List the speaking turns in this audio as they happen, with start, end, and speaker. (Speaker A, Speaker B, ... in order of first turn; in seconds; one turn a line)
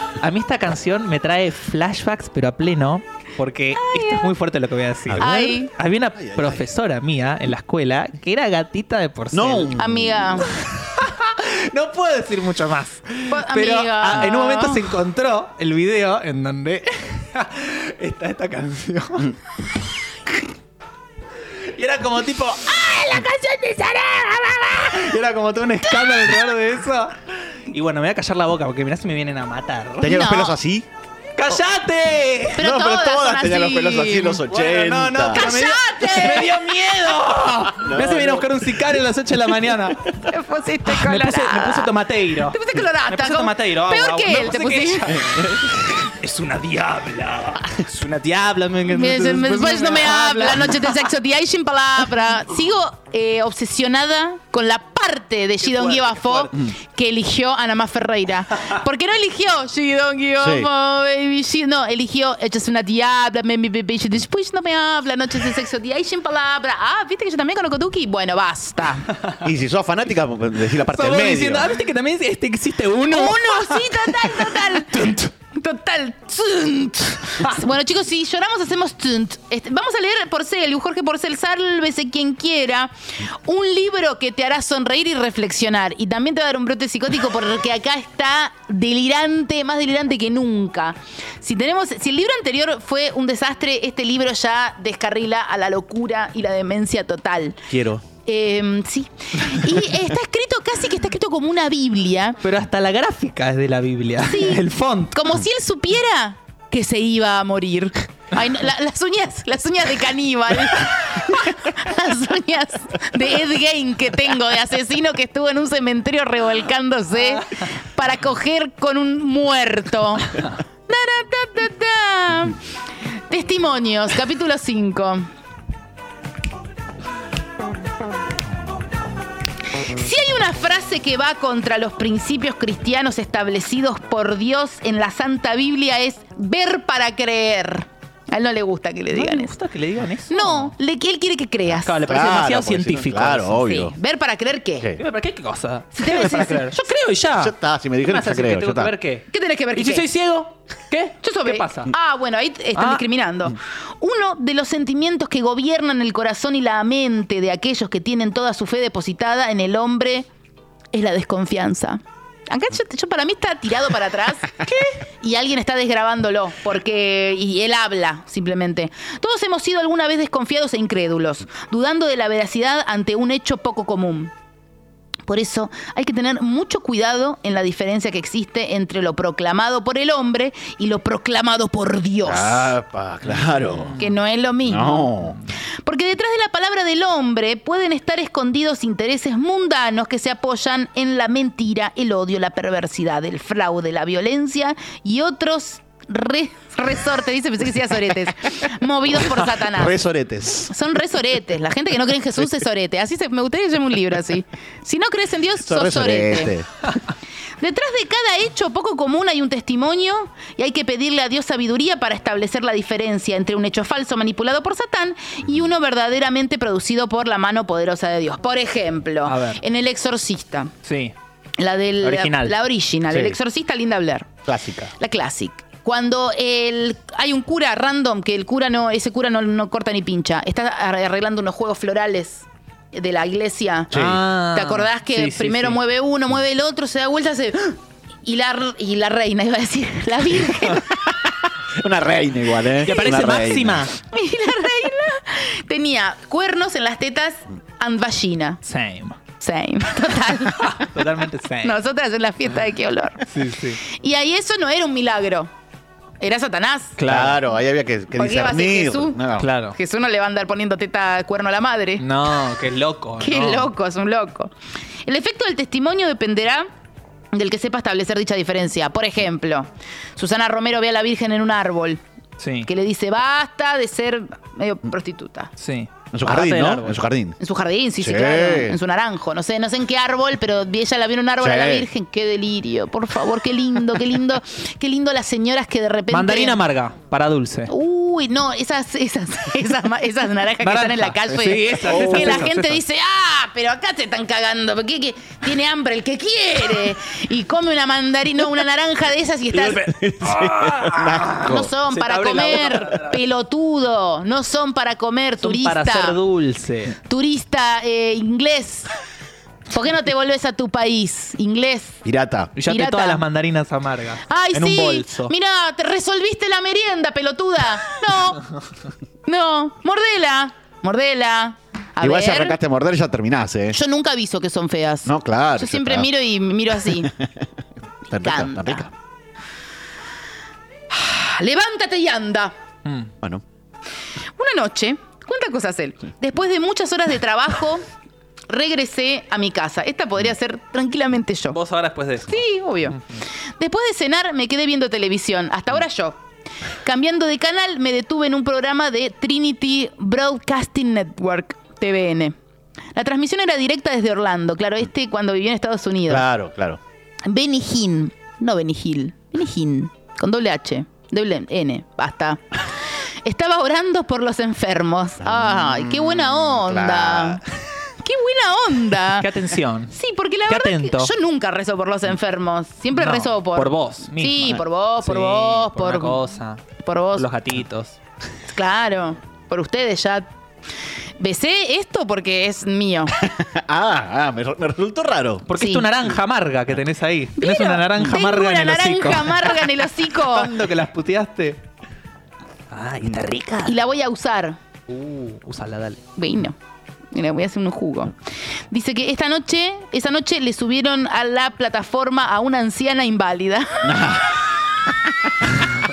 Speaker A: 0.2-9.7
Speaker B: 3.8-4.2
Speaker B: 5.2-5.7
Speaker C: 6.2-6.6
Speaker C: 9.3-10.5
Speaker B: 9.8-10.5
Speaker A: 10.6-19.3
Speaker B: 13.3-14.8
Speaker A: 21.8-27.2
Speaker A: 27.7-30.1
Speaker C: 30.0-30.9
Speaker B: 30.0-30.6
Speaker A: 31.4-32.6
Speaker B: 32.5-34.4
Speaker C: 32.6-35.5
Speaker A: 34.5-40.1
Speaker B: 35.3-36.9
Speaker C: 37.7-38.7
Speaker B: 40.3-41.9
Speaker A: 40.9-51.1
Speaker B: 42.5-45.1
Speaker B: 48.9-69.1
Speaker A: 55.6-56.5
Speaker C: 60.4-60.7
Speaker C: 69.4-71.7
Speaker A: 70.9-75.3
Speaker B: 73.1-75.0
Speaker B: 75.5-82.9
Speaker B: 83.4-97.6
Speaker C: 97.7-98.0
Speaker B: 98.3-102.4
Speaker A: 102.4-105.2
Speaker B: 104.2-122.6
Speaker B: 123.3-125.3
Speaker B: 129.8-139.6
Speaker A: 139.1-140.8
Speaker B: 140.3-142.0
Speaker A: 141.8-143.7
Speaker C: 142.0-143.9
Speaker B: 143.6-144.9
Speaker A: 145.0-151.9
Speaker B: 145.9-146.8
Speaker C: 147.4-148.9
Speaker B: 149.3-150.1
Speaker B: 151.2-160.3
Speaker A: 152.8-153.0
Speaker B: 160.9-164.7
Speaker B: 165.2-174.3
Speaker B: 175.3-182.7
Speaker C: 182.2-184.0
Speaker A: 183.3-184.1
Speaker B: 184.0-185.1
Speaker C: 184.7-185.4
Speaker B: 185.9-200.0
Speaker C: 199.6-200.7
Speaker B: 200.7-206.5
Speaker C: 205.6-206.7
Speaker B: 207.6-220.7
Speaker A: 219.3-219.6
Speaker A: 220.8-221.1
Speaker B: 221.6-224.3
Speaker A: 222.0-222.6
Speaker C: 223.1-223.4
Speaker C: 224.4-224.9
Speaker B: 225.0-233.9
Speaker C: 233.9-234.2
Speaker A: 233.9-235.8
Speaker B: 234.5-241.0
Speaker C: 241.8-243.9
Speaker A: 242.8-243.9
Speaker B: 244.1-248.6
Speaker A: 248.6-249.2
Speaker B: 249.4-250.9
Speaker A: 250.5-251.8
Speaker B: 251.6-253.2
Speaker A: 253.3-253.8
Speaker B: 253.9-255.5
Speaker B: 256.2-257.0
Speaker A: 257.0-257.4
Speaker C: 257.1-259.5
Speaker B: 258.1-259.2
Speaker A: 259.4-259.8
Speaker B: 259.7-262.0
Speaker A: 262.0-263.7
Speaker B: 263.2-264.5
Speaker B: 265.1-266.7
Speaker B: 267.3-272.0
Speaker A: 272.4-272.7
Speaker B: 272.7-275.5
Speaker A: 275.6-277.0
Speaker C: 276.1-277.4
Speaker B: 277.4-286.6
Speaker C: 278.0-278.8
Speaker C: 281.4-281.9
Speaker A: 286.1-287.7
Speaker B: 287.7-299.9
Speaker A: 290.6-292.8
Speaker C: 291.8-292.4
Speaker C: 299.5-301.7
Speaker A: 300.2-303.2
Speaker B: 301.4-306.2
Speaker A: 305.4-307.0
Speaker B: 307.1-308.9
Speaker B: 309.7-312.0
Speaker C: 312.1-312.5
Speaker A: 312.6-315.3
Speaker B: 312.7-313.2
Speaker B: 314.3-318.5
Speaker B: 319.3-322.6
Speaker C: 322.0-323.8
Speaker B: 323.7-327.1
Speaker C: 325.1-326.1
Speaker C: 328.1-328.9
Speaker B: 328.2-328.9
Speaker B: 330.9-332.5
Speaker A: 332.9-333.1
Speaker B: 334.4-337.9
Speaker B: 338.5-341.6
Speaker A: 341.5-342.4
Speaker B: 342.3-343.0
Speaker B: 343.6-346.2
Speaker B: 346.8-352.4
Speaker B: 352.9-356.3
Speaker C: 356.1-356.8
Speaker B: 357.3-362.4
Speaker B: 363.2-367.4
Speaker C: 365.2-367.4
Speaker B: 368.0-369.3
Speaker A: 369.2-369.9
Speaker B: 369.9-376.2
Speaker A: 370.5-371.1
Speaker A: 372.9-376.6
Speaker B: 376.8-377.3
Speaker A: 377.1-378.0
Speaker B: 378.5-380.3
Speaker B: 381.2-383.1
Speaker C: 383.2-385.5
Speaker A: 385.5-391.6
Speaker B: 385.6-385.9
Speaker B: 387.4-390.5
Speaker A: 392.7-393.8
Speaker B: 393.6-394.6
Speaker A: 394.9-396.0
Speaker B: 396.2-396.6
Speaker B: 397.1-398.1
Speaker B: 398.7-403.9
Speaker C: 403.8-404.4